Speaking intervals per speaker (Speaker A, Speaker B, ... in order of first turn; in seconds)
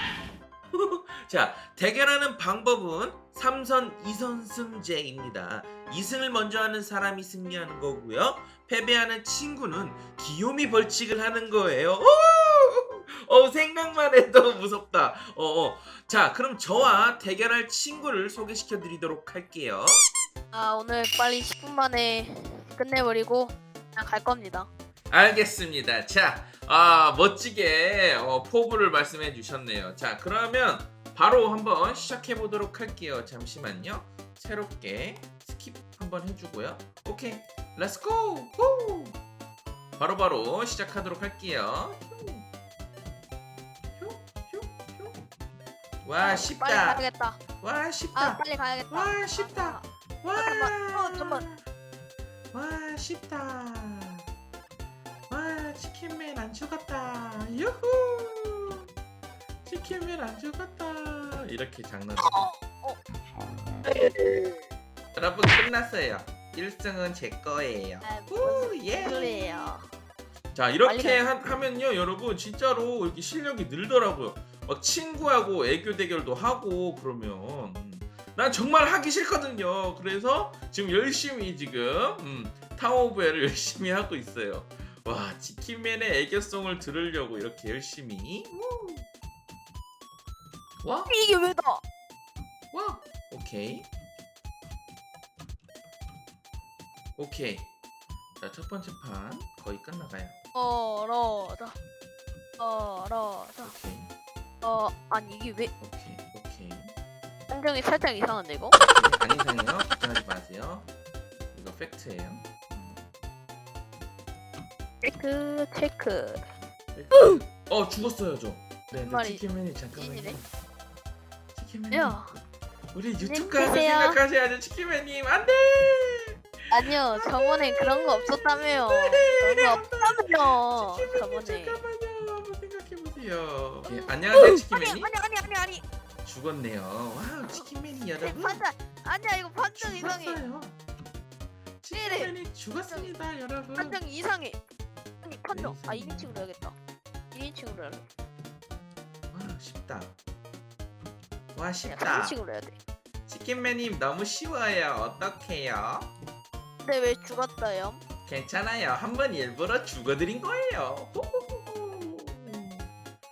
Speaker A: 0.7-20.1, 25.1-39.2, 40.0-42.5, 44.0-45.2, 46.0-47.0, 47.6-51.6, 52.5-54.2, 55.3-58.9, 59.6-62.4, 65.1-69.7, 70.5-89.1, 90.8-91.1, 92.7-93.9, 97.2-97.7, 98.4-100.3, 103.6-104.1, 105.8-106.9, 108.8-110.9, 111.5-113.1, 116.9-120.5, 121.5-122.2, 122.9-135.1, 136.2-138.6, 139.7-140.8, 141.8-144.0, 145.5-146.4, 149.3-150.1, 151.5-152.4, 153.3-156.1, 158.2-162.9
Speaker B: 20.5-24.7, 46.2-47.4, 48.1-51.4, 62.2-63.0, 68.0-69.8, 70.8-71.3, 91.1-91.8, 100.5-101.8, 102.6-103.7, 104.6-105.7, 107.5-108.8, 115.0-116.4, 118.9-119.4, 119.9-120.4, 121.9-122.4, 123.2-124.2, 126.7-131.8, 133.8-135.8, 138.2-140.4, 141.9-142.3, 142.9-143.2, 143.8-144.6, 145.2-146.7, 147.3-148.1, 151.8-152.8, 156.8-158.0